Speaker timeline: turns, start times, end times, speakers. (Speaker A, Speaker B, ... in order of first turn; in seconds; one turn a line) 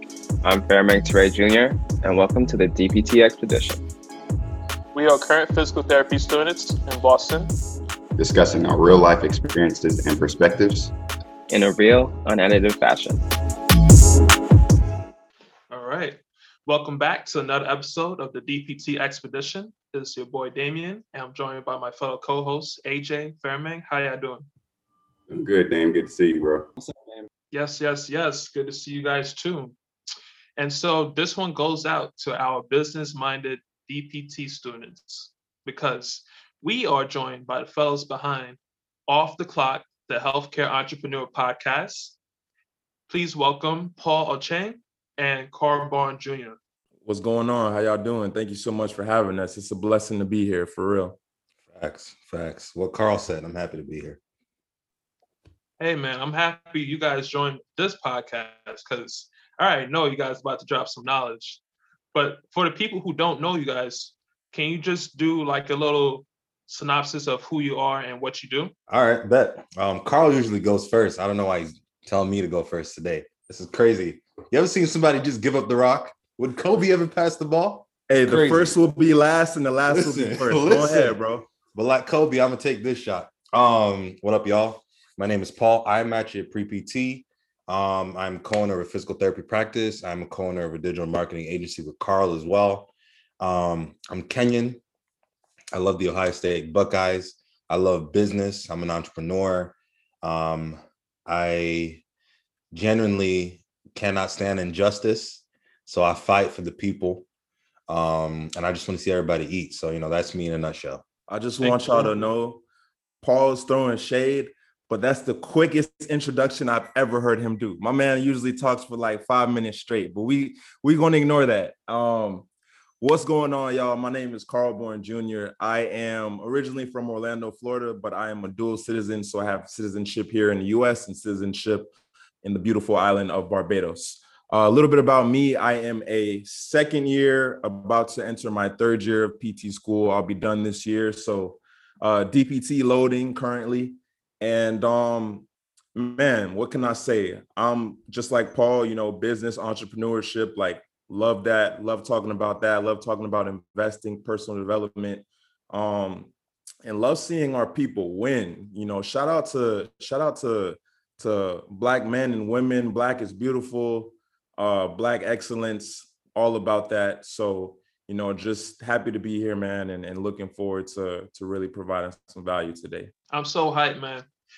Speaker A: 0.4-3.8
Speaker B: 4.9-7.5
Speaker C: 8.2-10.9
Speaker A: 11.5-13.2
Speaker B: 15.7-24.5
Speaker C: 25.3-26.7
Speaker B: 27.5-29.7
Speaker B: 30.6-42.1
Speaker B: 43.1-46.6
Speaker D: 47.0-51.2
Speaker E: 51.7-54.2
Speaker B: 55.8-61.6
Speaker B: 62.1-68.7
Speaker E: 68.9-78.8
Speaker D: 78.1-81.5
Speaker E: 79.9-94.8
Speaker E: 95.7-102.0
Speaker E: 102.7-107.2
Speaker E: 107.9-111.0
Speaker D: 111.3-112.6
Speaker B: 111.6-112.1
Speaker D: 113.2-122.5
Speaker D: 123.0-156.3
Speaker D: 156.8-173.1
Speaker B: 173.3-174.2